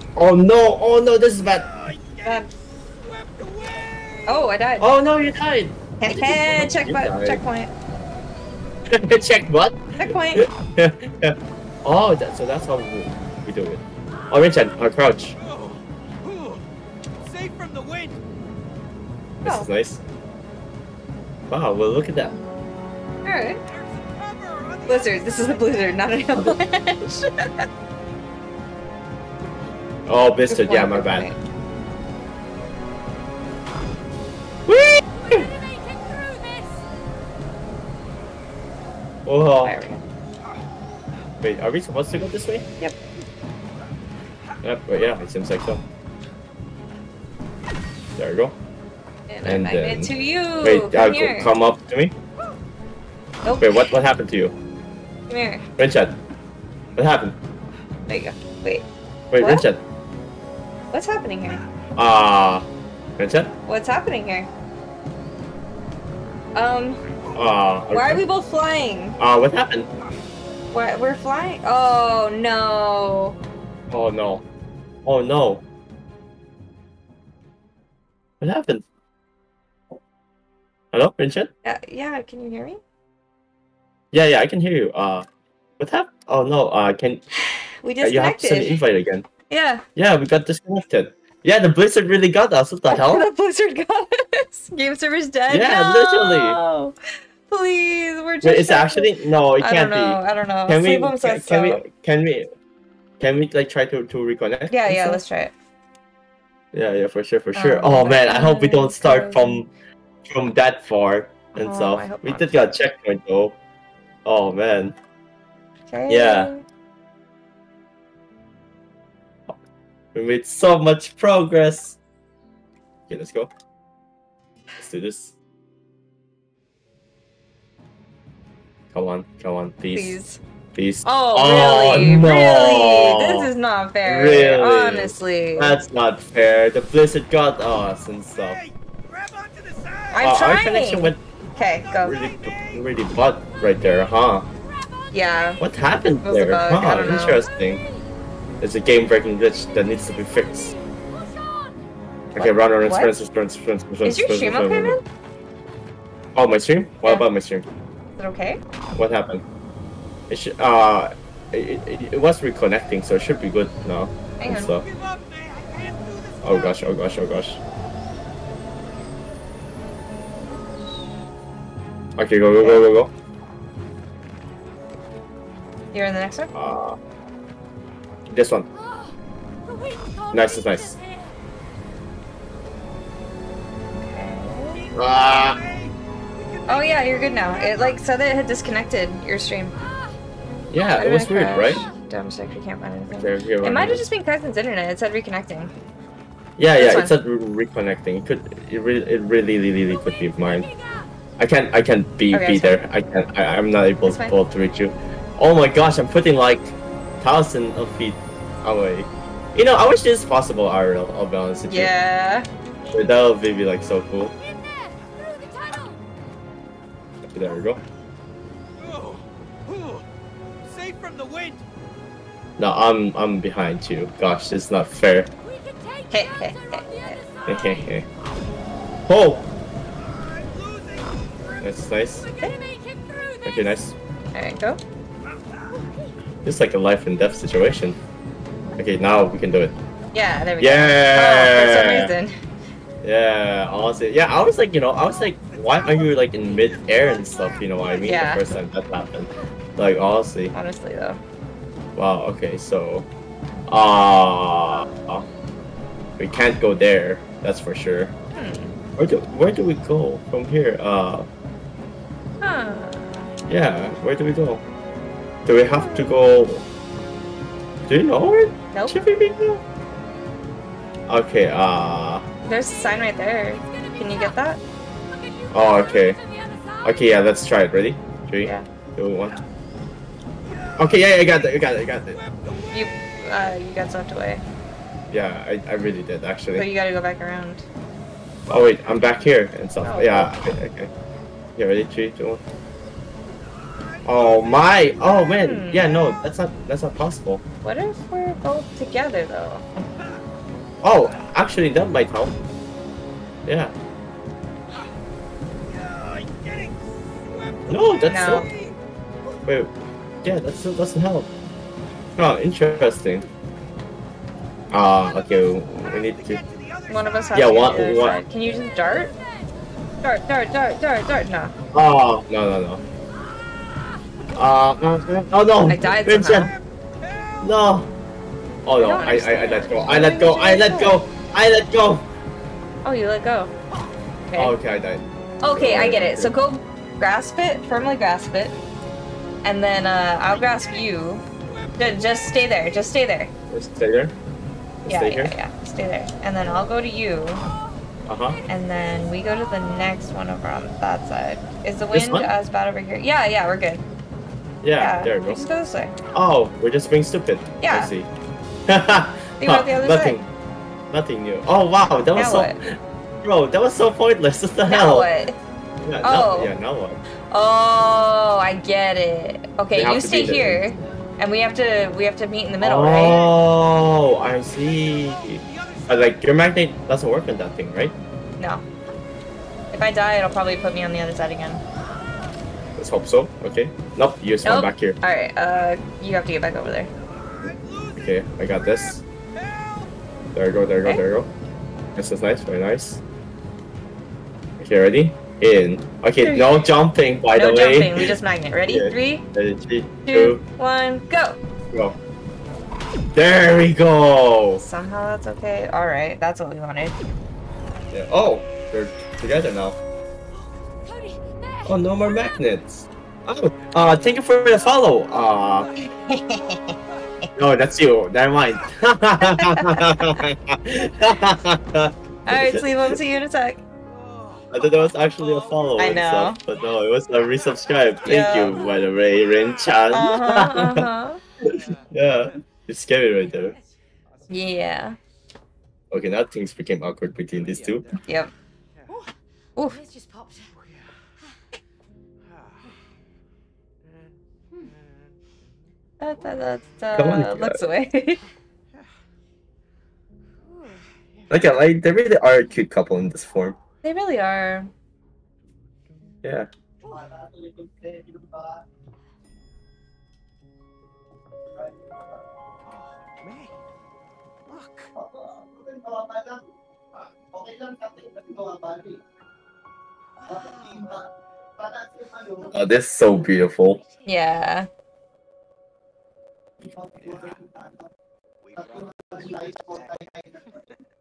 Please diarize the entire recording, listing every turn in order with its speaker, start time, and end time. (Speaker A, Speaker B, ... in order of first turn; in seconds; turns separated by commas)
Speaker A: 0.2-1.7, Speaker B: 1.5-4.5, Speaker C: 4.3-4.9, Speaker A: 4.8-7.4, Speaker C: 6.0-7.7, Speaker A: 8.9-15.4, Speaker C: 10.0-10.4, Speaker B: 15.4-16.6, Speaker B: 17.2-18.2, Speaker A: 19.4-20.0, Speaker C: 19.4-19.7, Speaker A: 21.5-22.4, Speaker C: 23.2-23.6, Speaker B: 23.6-26.0, Speaker C: 24.9-27.6, Speaker A: 30.1-31.3, Speaker C: 30.5-31.4, Speaker A: 34.7-35.5, Speaker D: 35.1-36.8, Speaker A: 39.2-39.8, Speaker C: 39.6-40.0, Speaker A: 41.4-42.7, Speaker A: 44.6-45.8, Speaker A: 48.2-48.5, Speaker C: 49.3-51.5, Speaker A: 49.4-52.1, Speaker C: 53.4-53.9, Speaker A: 53.6-54.5, Speaker C: 55.3-55.6, Speaker A: 55.8-56.2, Speaker A: 57.0-57.4, Speaker C: 58.1-58.9, Speaker A: 59.3-59.8, Speaker C: 59.4-59.7, Speaker C: 60.9-61.6, Speaker A: 62.0-62.7, Speaker A: 63.2-63.5, Speaker C: 63.7-64.5, Speaker C: 66.5-67.0, Speaker A: 67.3-68.2, Speaker C: 67.9-69.2, Speaker A: 69.2-69.9, Speaker C: 70.7-73.4, Speaker A: 73.9-74.4, Speaker A: 75.1-75.6, Speaker A: 78.4-78.8, Speaker A: 80.9-81.5, Speaker C: 81.6-82.8, Speaker A: 84.1-85.3, Speaker A: 85.8-87.2, Speaker C: 87.4-88.8, Speaker A: 88.0-89.3, Speaker C: 89.5-89.8, Speaker A: 90.0-93.3, Speaker C: 92.9-97.0, Speaker A: 95.5-96.6, Speaker C: 97.5-101.8, Speaker A: 98.4-102.5, Speaker A: 103.2-105.2, Speaker C: 104.7-105.5, Speaker A: 106.7-109.7, Speaker C: 107.5-109.6, Speaker A: 110.3-113.6, Speaker C: 111.6-112.5, Speaker A: 114.2-115.0, Speaker C: 115.9-116.6, Speaker A: 116.1-116.5, Speaker A: 120.1-122.0, Speaker A: 123.1-123.5, Speaker A: 124.8-125.3, Speaker A: 128.9-130.2, Speaker C: 129.9-130.4, Speaker A: 130.8-133.5, Speaker C: 131.1-135.8, Speaker A: 134.0-138.6, Speaker B: 138.3-140.4, Speaker C: 140.1-142.2, Speaker A: 140.2-141.2, Speaker B: 141.6-142.9, Speaker A: 142.0-144.5, Speaker D: 144.7-145.4, Speaker C: 145.1-145.6, Speaker A: 145.6-147.8, Speaker C: 146.2-147.4, Speaker D: 147.1-148.0, Speaker A: 148.6-150.7, Speaker D: 149.8-151.8, Speaker A: 152.3-155.0, Speaker C: 152.4-153.2, Speaker C: 154.1-155.0, Speaker A: 156.3-157.7, Speaker C: 158.2-158.6, Speaker A: 158.9-159.4, Speaker A: 160.3-164.8, Speaker C: 164.4-164.7, Speaker B: 164.7-167.0, Speaker A: 166.4-167.6, Speaker A: 172.2-173.1, Speaker C: 175.9-176.5, Speaker A: 176.5-177.0, Speaker A: 178.3-178.7, Speaker D: 178.8-181.4, Speaker A: 180.3-180.9, Speaker C: 183.9-184.8, Speaker B: 184.7-188.0, Speaker A: 184.9-185.6, Speaker C: 186.7-189.8, Speaker D: 189.8-190.2, Speaker A: 190.7-191.8, Speaker C: 190.9-195.7, Speaker D: 191.5-191.9, Speaker A: 193.2-194.1, Speaker A: 196.6-200.7, Speaker C: 196.8-197.2, Speaker D: 199.9-201.1, Speaker A: 201.4-211.9, Speaker C: 202.3-202.8, Speaker C: 204.1-204.3, Speaker C: 211.7-212.5, Speaker A: 212.9-214.3, Speaker D: 214.4-216.0, Speaker A: 217.3-217.8, Speaker B: 218.8-220.1, Speaker B: 220.6-221.7, Speaker A: 222.6-225.3, Speaker D: 225.4-228.0, Speaker C: 226.1-227.2, Speaker A: 227.5-228.1, Speaker A: 229.1-229.5, Speaker B: 229.9-231.8, Speaker A: 231.6-232.3, Speaker D: 232.2-233.8, Speaker A: 233.4-233.9, Speaker C: 234.3-234.8, Speaker D: 235.8-236.1, Speaker A: 236.4-238.0, Speaker A: 238.8-239.8, Speaker C: 240.1-242.4, Speaker A: 240.6-242.1, Speaker A: 243.0-250.5, Speaker B: 245.4-248.3, Speaker C: 248.0-248.5, Speaker C: 250.5-251.2, Speaker A: 252.0-253.1, Speaker A: 253.7-255.2, Speaker A: 256.2-258.1, Speaker C: 258.4-258.8, Speaker A: 259.0-261.3, Speaker C: 262.4-263.3, Speaker A: 263.5-264.6, Speaker A: 265.5-266.6, Speaker C: 265.6-266.1, Speaker A: 267.9-269.6, Speaker C: 268.7-269.0, Speaker A: 271.1-272.3, Speaker C: 272.4-274.6, Speaker D: 272.7-274.4, Speaker D: 275.1-277.1, Speaker A: 275.5-276.2, Speaker A: 276.8-279.4, Speaker B: 280.4-283.5, Speaker A: 280.8-282.2, Speaker C: 282.7-284.4, Speaker A: 285.1-286.7, Speaker C: 286.6-287.6, Speaker A: 288.5-290.9, Speaker C: 289.8-290.4, Speaker A: 291.6-292.4, Speaker B: 293.6-295.1, Speaker A: 294.1-297.4, Speaker C: 295.3-296.1, Speaker C: 297.6-299.7, Speaker A: 300.8-302.3, Speaker A: 303.5-303.7, Speaker B: 305.7-308.8, Speaker A: 307.7-308.5, Speaker C: 308.1-308.5, Speaker A: 309.5-309.7, Speaker A: 310.2-311.3, Speaker A: 312.2-313.2, Speaker A: 314.7-316.4, Speaker B: 315.1-318.2, Speaker C: 316.9-319.1, Speaker A: 317.3-318.2, Speaker D: 318.5-319.5, Speaker C: 320.0-321.6, Speaker A: 321.7-322.8, Speaker A: 324.4-326.5, Speaker C: 325.7-326.6, Speaker B: 326.3-327.5, Speaker A: 327.4-327.9, Speaker A: 328.6-332.1, Speaker C: 328.8-331.0, Speaker C: 332.8-333.5, Speaker C: 334.3-334.6, Speaker A: 334.4-336.3, Speaker C: 335.4-338.5, Speaker C: 339.4-341.2, Speaker B: 341.4-342.4, Speaker C: 341.8-343.3, Speaker A: 343.5-344.1, Speaker A: 344.8-345.3, Speaker C: 344.9-347.4, Speaker A: 348.1-348.4, Speaker C: 348.5-353.8, Speaker A: 351.9-352.3, Speaker A: 354.6-355.4, Speaker C: 354.8-355.9, Speaker A: 356.1-358.1, Speaker C: 357.6-357.9, Speaker A: 358.7-360.3, Speaker C: 359.4-360.2, Speaker A: 360.9-365.1, Speaker C: 362.1-362.6, Speaker C: 364.6-365.4, Speaker A: 365.8-367.0, Speaker C: 366.0-366.5, Speaker C: 367.3-373.3, Speaker A: 369.7-370.8, Speaker A: 372.6-377.9, Speaker B: 373.0-373.4, Speaker B: 374.6-376.2, Speaker C: 378.4-378.6, Speaker C: 379.7-381.6, Speaker A: 382.8-385.0, Speaker C: 384.4-386.9, Speaker B: 387.0-389.8, Speaker A: 388.0-389.0, Speaker A: 390.3-391.3, Speaker A: 391.9-393.0, Speaker A: 394.6-400.4, Speaker C: 396.2-396.7, Speaker C: 397.3-399.3, Speaker C: 400.1-401.4, Speaker A: 403.1-404.6, Speaker C: 404.6-406.9, Speaker A: 407.9-409.8, Speaker D: 410.8-412.3, Speaker A: 411.7-415.7, Speaker B: 414.7-417.1, Speaker C: 416.1-416.6, Speaker A: 417.4-423.0, Speaker C: 419.2-420.1, Speaker C: 422.3-423.6, Speaker B: 423.8-430.1, Speaker A: 424.5-430.9, Speaker C: 425.8-426.4, Speaker C: 428.1-428.7, Speaker C: 429.9-431.2, Speaker B: 431.4-432.1, Speaker A: 431.4-433.6, Speaker D: 433.3-433.6, Speaker B: 433.3-434.6, Speaker C: 434.3-435.0, Speaker A: 435.9-437.9, Speaker B: 437.3-438.1, Speaker C: 438.1-438.3, Speaker B: 438.8-439.1, Speaker D: 438.9-440.6, Speaker B: 440.6-440.9, Speaker B: 442.3-442.8, Speaker B: 443.8-444.1, Speaker C: 446.0-448.2, Speaker A: 446.9-447.7, Speaker D: 450.5-450.8, Speaker A: 451.3-453.6, Speaker C: 453.8-454.7, Speaker A: 456.2-456.5, Speaker E: 456.8-458.6, Speaker B: 462.6-463.6, Speaker B: 464.5-464.9, Speaker E: 464.9-466.4, Speaker E: 466.9-469.0, Speaker E: 470.3-472.7, Speaker D: 470.3-470.8, Speaker D: 472.4-474.3, Speaker A: 472.5-473.8, Speaker C: 474.1-474.7, Speaker E: 476.6-477.9, Speaker B: 478.4-480.0, Speaker E: 478.6-480.5